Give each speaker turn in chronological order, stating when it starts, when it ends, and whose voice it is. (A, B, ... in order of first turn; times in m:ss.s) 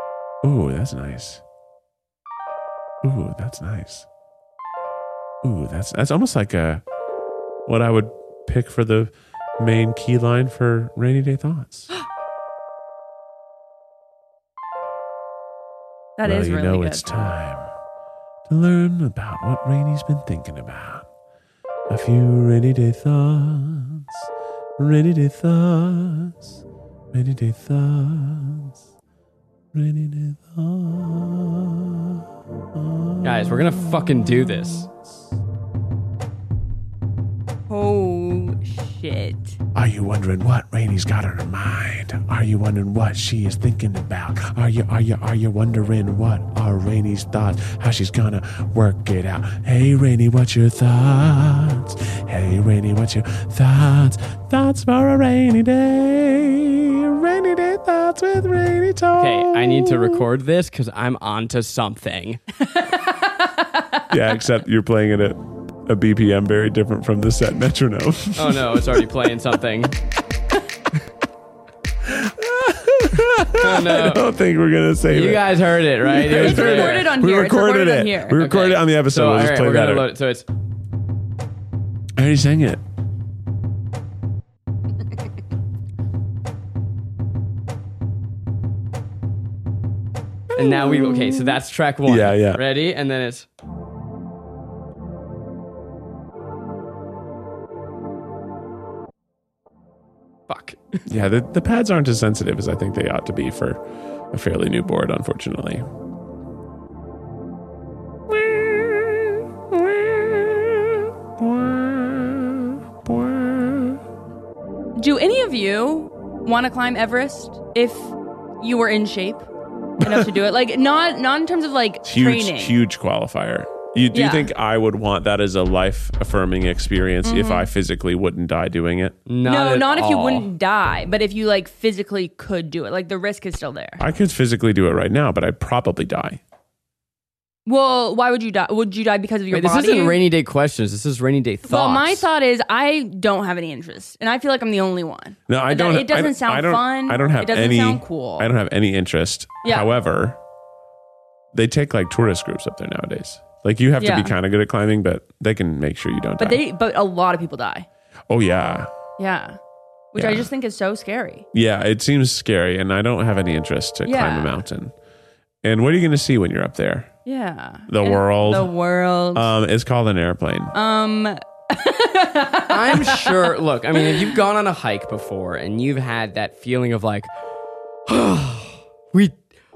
0:00.4-0:01.4 A
0:03.0-0:04.1 A
0:05.4-0:06.8 A
0:07.7-0:11.9 A
0:16.2-0:17.3 B
0:16.2-0:17.7 A
0:18.5-0:21.1 A
0:21.9-0:24.1 A
0:24.8-0:26.4 A
0:27.1-0:28.8 A
0:29.7-0:32.2 A
0:32.7-0:35.0 A
0:33.2-0:34.9 C
0:37.7-0:39.6 B
0:39.8-1:00.2 A
0:59.2-1:02.4 C
1:02.6-1:04.1 B
1:04.1-1:09.0 A
1:08.4-1:10.0 C
1:12.0-1:20.1 A
1:13.6-1:14.2 C
1:15.1-1:17.2 C
1:16.2-1:18.5 B
1:18.4-1:20.5 C
1:22.2-1:22.8 A
1:30.6-1:32.6 A
1:30.6-1:33.5 C
1:40.5-1:41.0 C
1:41.1-1:45.8 A
1:48.3-1:54.0 A
1:55.0-1:59.5 B
2:00.0-2:02.8 B
2:02.0-2:09.2 A
2:04.1-2:04.5 B
2:07.2-2:07.7 B
2:09.3-2:10.5 C
2:09.4-2:14.0 B
2:14.0-2:16.4 A
2:17.7-2:20.2 B
2:19.5-2:22.3 C
2:21.7-2:28.5 B
2:25.5-2:30.4 A
2:29.6-2:29.9 B
2:31.5-2:36.6 A
2:34.0-2:34.3 B
2:36.4-2:37.9 B
2:38.3-2:38.9 A
2:39.2-2:39.6 B
2:40.1-2:41.5 B
2:40.2-2:40.5 A
2:41.5-2:44.9 A
2:44.0-2:44.6 B
2:45.6-2:47.1 A
2:47.2-2:49.5 B
2:47.9-2:48.7 A
2:49.3-2:50.7 A
2:50.7-2:54.2 B
2:52.7-2:57.3 C
2:58.1-2:59.4 C